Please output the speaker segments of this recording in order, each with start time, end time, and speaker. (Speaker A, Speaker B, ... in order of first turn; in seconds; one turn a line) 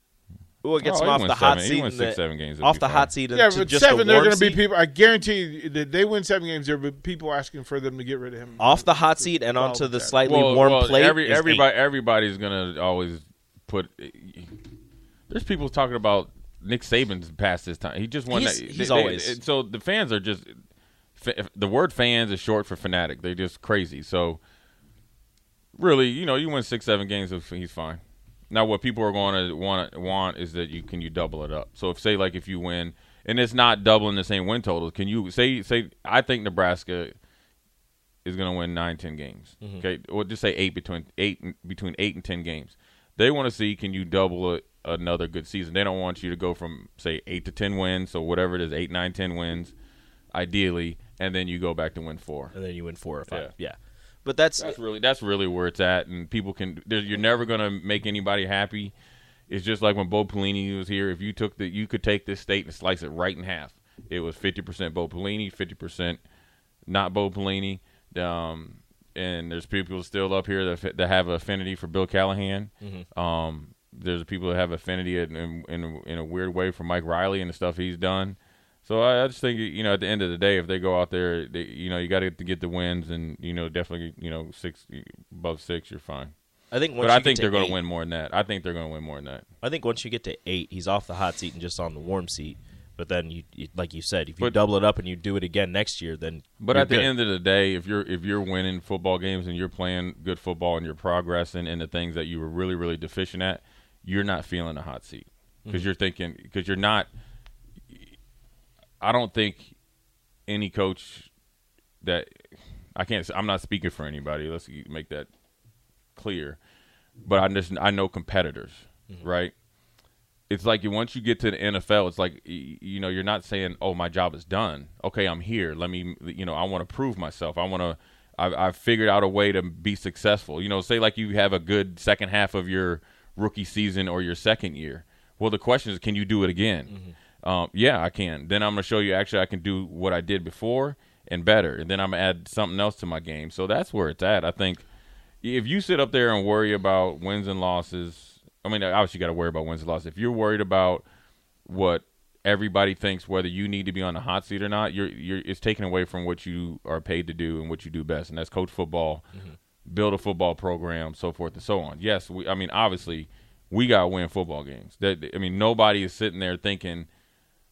Speaker A: 0.6-4.6
Speaker B: 0.8-3.1
Speaker C: 3.3-10.2
Speaker A: 8.6-11.7
Speaker B: 10.2-14.6
Speaker B: 15.3-20.6
Speaker A: 18.3-19.4
Speaker B: 21.2-24.4
Speaker B: 25.8-37.1
Speaker B: 38.2-49.7
Speaker B: 50.3-52.5
Speaker A: 52.5-54.8
Speaker B: 54.6-58.9
Speaker B: 59.5-66.2
Speaker B: 66.9-86.3
Speaker A: 72.8-73.0
Speaker A: 86.7-87.8
Speaker B: 87.0-89.5
Speaker A: 89.6-97.1
Speaker B: 96.6-107.1
Speaker B: 109.0-109.7
Speaker B: 110.5-111.3
Speaker B: 112.0-115.3
Speaker B: 116.2-116.6
Speaker B: 117.2-119.5
Speaker B: 120.5-144.8
Speaker A: 136.9-137.1
Speaker B: 145.4-151.0
Speaker B: 151.7-159.2
Speaker B: 159.8-167.1